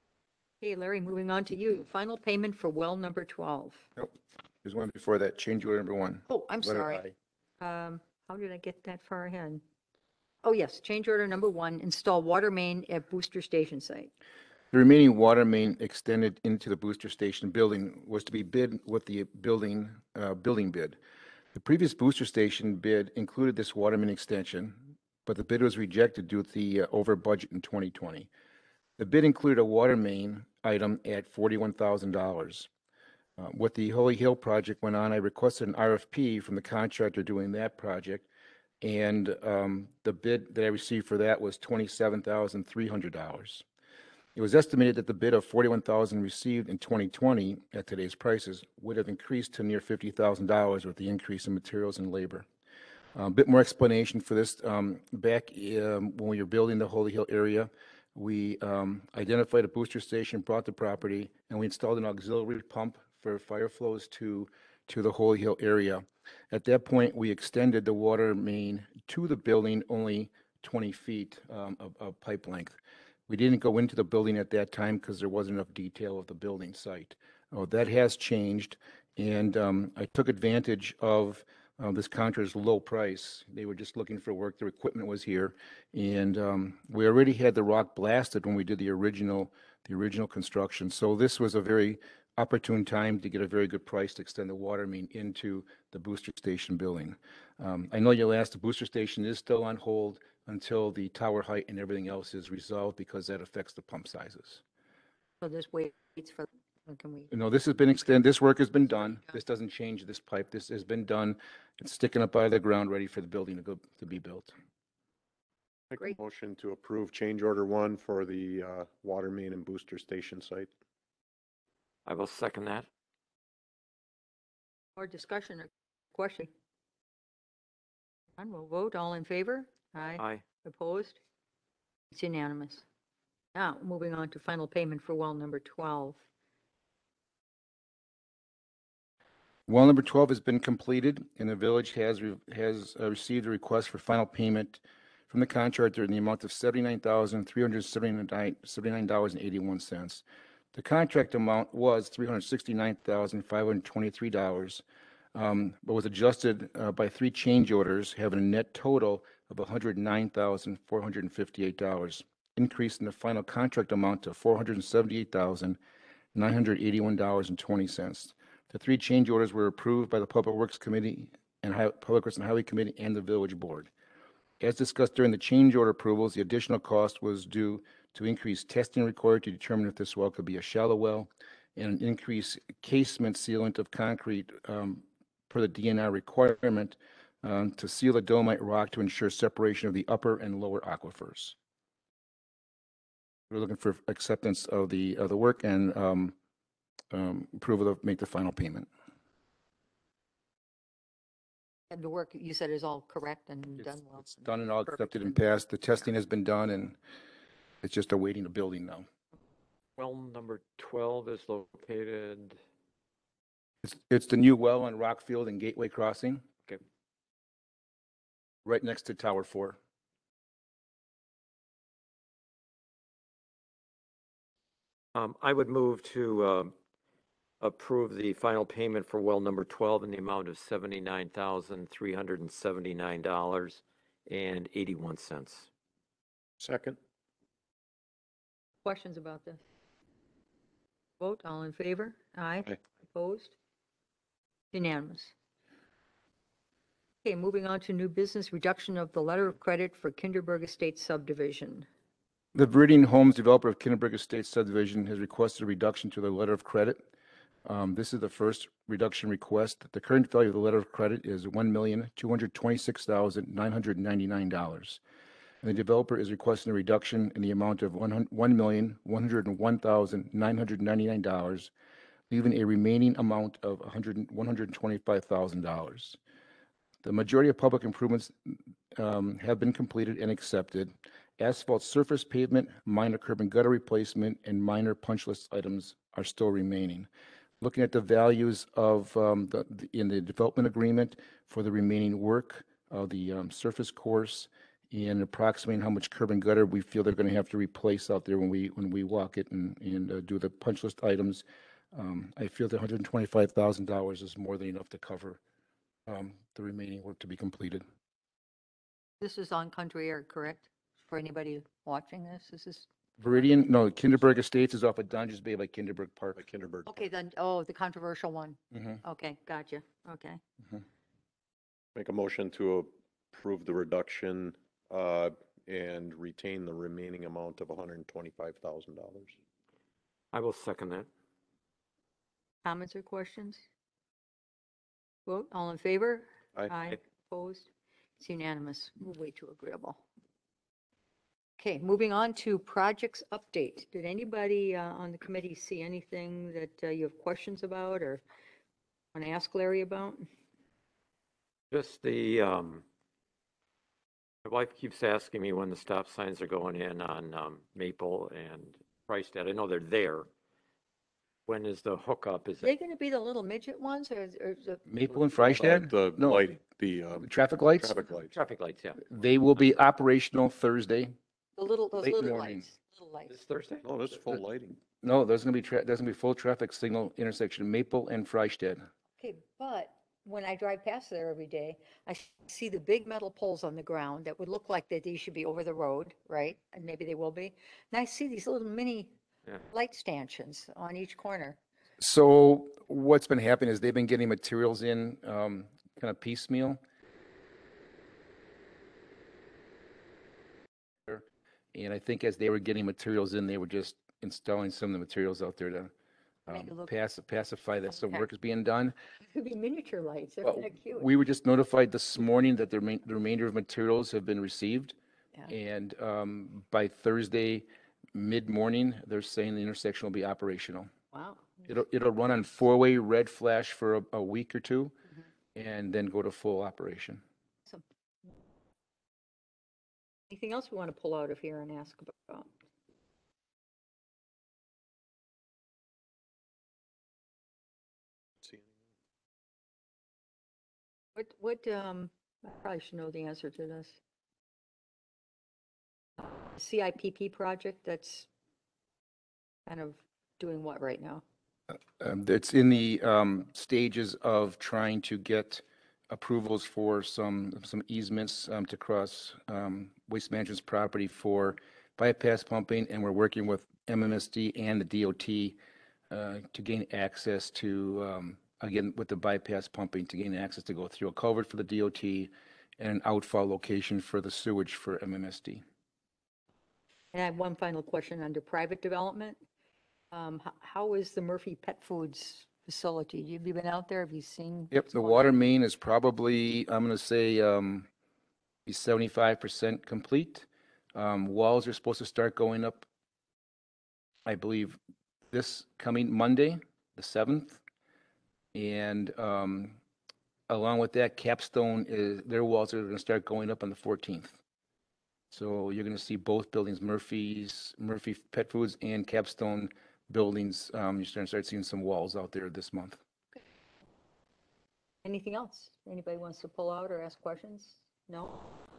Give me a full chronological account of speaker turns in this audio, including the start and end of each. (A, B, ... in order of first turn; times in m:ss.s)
0:00.6-0:03.8 A
0:04.6-0:07.1 B
0:06.3-0:07.0 A
0:07.6-0:09.6 A
0:10.4-0:14.1 A
0:14.7-0:21.0 B
0:21.5-0:28.3 B
0:29.0-0:32.7 B
0:33.4-0:38.3 B
0:38.8-0:43.6 B
0:44.3-0:52.4 B
0:53.1-1:12.8 B
1:13.3-1:44.6 B
1:45.4-1:47.3 A
1:47.3-1:54.5 B
1:55.9-2:00.7 C
2:02.0-2:02.9 D
2:05.0-2:06.5 A
2:08.4-2:11.2 A
2:10.2-2:10.4 D
2:12.1-2:12.8 A
2:13.5-2:16.2 A
2:19.7-2:30.2 B
2:30.7-2:34.8 B
2:35.3-2:45.8 B
2:46.3-2:53.9 B
2:54.6-3:11.5 B
3:13.5-3:16.3 B
3:17.1-3:18.9 B
3:21.9-3:25.4 A
3:24.1-3:27.0 B
3:27.8-3:29.1 B
3:30.0-3:32.6 D
3:33.8-3:36.4 B
3:38.6-3:39.8 B
3:45.1-3:46.7 D
3:47.6-3:55.7 D
3:56.6-3:57.0 C
3:58.8-3:59.6 A
4:01.2-4:03.5 A
4:04.7-4:05.3 A
4:07.2-4:11.9 A
4:12.5-4:17.0 B
4:17.6-4:25.0 B
4:25.6-4:31.7 B
4:32.3-4:36.2 B
4:37.0-4:47.1 B
4:47.6-5:05.4 B
5:06.0-5:07.8 B
5:09.2-5:13.5 A
5:13.2-5:16.4 B
5:16.4-5:17.0 C
5:16.8-5:20.4 A
5:18.7-5:19.0 B
5:21.9-5:29.4 C
5:30.3-5:31.1 D
5:32.6-5:33.6 A
5:35.2-5:40.0 A
5:41.6-5:48.2 A
5:49.1-5:50.3 A
5:51.7-5:52.8 D
5:54.4-6:00.3 D
6:01.4-6:02.7 D
6:02.6-6:04.8 A
6:04.8-6:06.5 B
6:05.4-6:08.3 C
6:07.2-6:08.0 B
6:08.3-6:09.0 D
6:09.0-6:11.2 B
6:11.6-6:13.3 A
6:12.0-6:12.6 B
6:13.3-6:14.1 D
6:13.8-6:14.8 C
6:15.0-6:18.8 B
6:19.2-6:29.1 A
6:29.7-6:31.6 A
6:32.0-6:36.8 B
6:41.1-6:45.9 B
6:46.5-6:48.9 B
6:46.5-6:46.9 A
6:47.9-6:48.3 A
6:49.3-6:51.1 A
6:50.4-6:54.9 B
6:55.5-7:00.9 B
7:01.1-7:01.6 A
7:01.7-7:05.0 B
7:05.5-7:07.2 B
7:10.3-7:12.5 A
7:18.4-7:18.7 C
7:21.1-7:24.0 A
7:26.2-7:28.3 A
7:29.7-7:31.2 A
7:32.0-7:45.6 B
7:46.1-7:55.6 B
7:57.1-7:59.4 A
8:00.1-8:05.4 A
8:04.7-8:07.9 B
8:08.6-8:12.9 B
8:14.2-8:14.8 B
8:15.3-8:17.6 B
8:18.5-8:19.8 B
8:20.5-8:24.4 B
8:25.3-8:33.0 B
8:35.0-8:38.4 A